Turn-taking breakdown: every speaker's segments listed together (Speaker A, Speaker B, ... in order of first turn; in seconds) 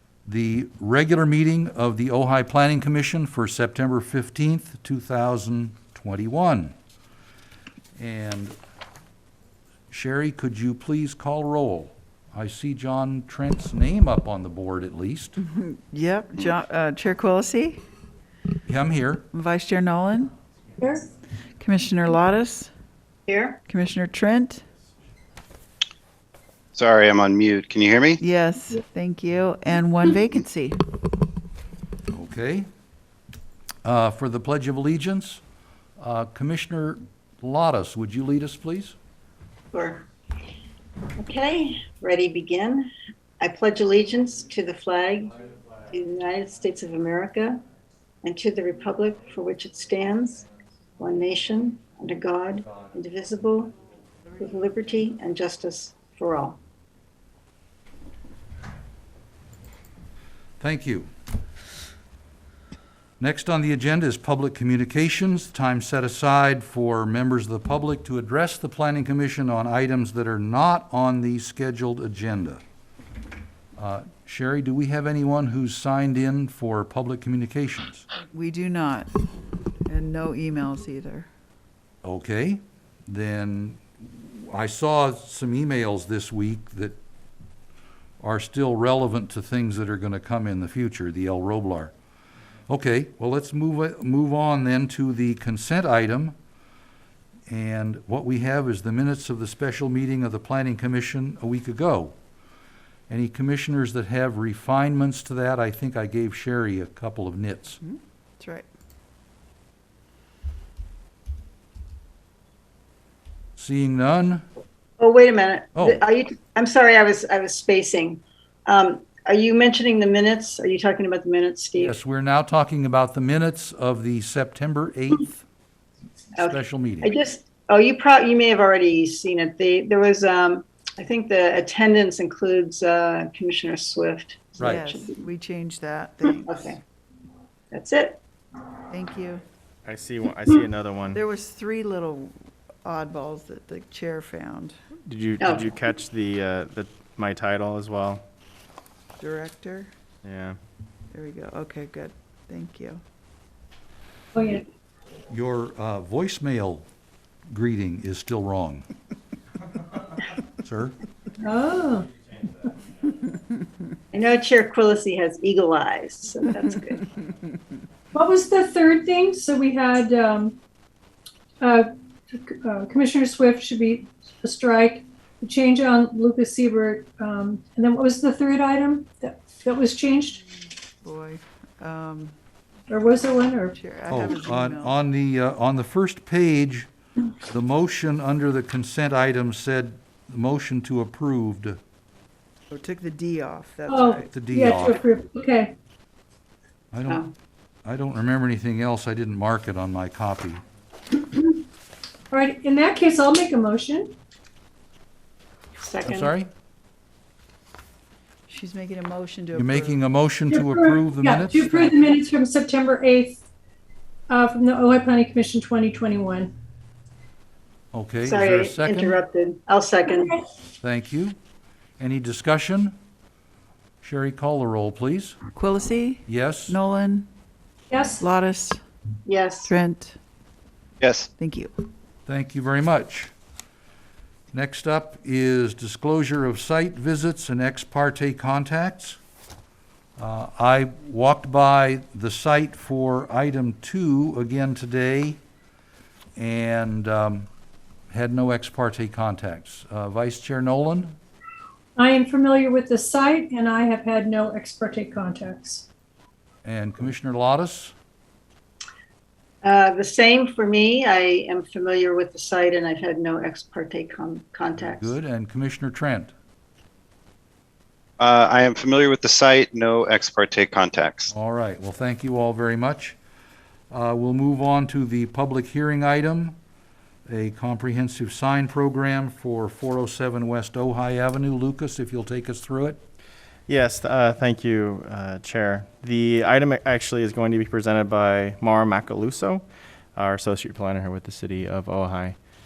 Speaker A: 0.3-6.8, 8.0-8.6, 9.9-15.4, 18.7-19.2, 32.1-32.7, 33.9-35.4, 36.0-39.0, 60.6-61.1, 63.2-72.6, 73.8-78.1, 82.0-87.0, 88.2-91.9, 92.7-96.3, 97.5-102.2, 103.1-107.8, 113.6-114.5, 115.8-116.0, 121.8-125.4, 126.4-127.1, 155.3-156.8, 157.5-158.9, 160.6-161.0, 184.1-186.9, 187.5-191.8, 194.3-195.0, 196.9-197.3, 197.8-200.6, 206.0-206.5, 209.6-212.1, 217.9-219.2, 220.8-221.4, 222.0-222.9, 224.0-225.4, 226.3-226.8, 232.3-233.3, 234.5-239.2, 240.2-245.4, 246.4-247.5, 248.1-251.2, 256.6-257.9, 264.8-266.3, 271.3-273.2, 273.9-276.6, 277.3-283.0
Speaker B: 15.4-17.8, 19.3-20.3, 21.6-22.7, 23.7-24.6, 28.2-30.8, 78.3-79.1, 79.9-81.3, 107.8-108.7, 134.6-136.7, 138.9-139.4, 141.1-144.8, 149.2-149.9, 151.1-153.0, 181.0-182.3, 183.7-185.0, 192.7-194.3, 208.5-210.0, 225.6-227.3, 228.2-228.8, 229.7-230.2, 231.4-231.7
Speaker C: 20.8-21.1, 154.3-154.7, 161.4-162.1, 168.1-170.6, 171.6-180.5, 182.9-183.8, 193.9-195.7, 202.3-204.2, 210.5-213.4, 214.3-216.5, 227.9-228.2, 252.0-255.9
Speaker D: 23.3-23.6, 39.7-40.0, 41.2-45.4, 45.9-47.6, 48.2-50.4, 51.0-53.7, 54.4-56.6, 115.0-122.0, 126.4-135.1, 136.5-136.8, 137.7-138.2, 145.4-145.7, 164.1-167.1, 205.8-206.3, 218.2-220.4, 229.3-229.7, 259.6-265.1
Speaker E: 26.7-28.2, 231.0-231.3, 268.2-271.3
Speaker F: 139.8-141.2, 145.1-148.2, 150.2-150.6, 283.7-292.4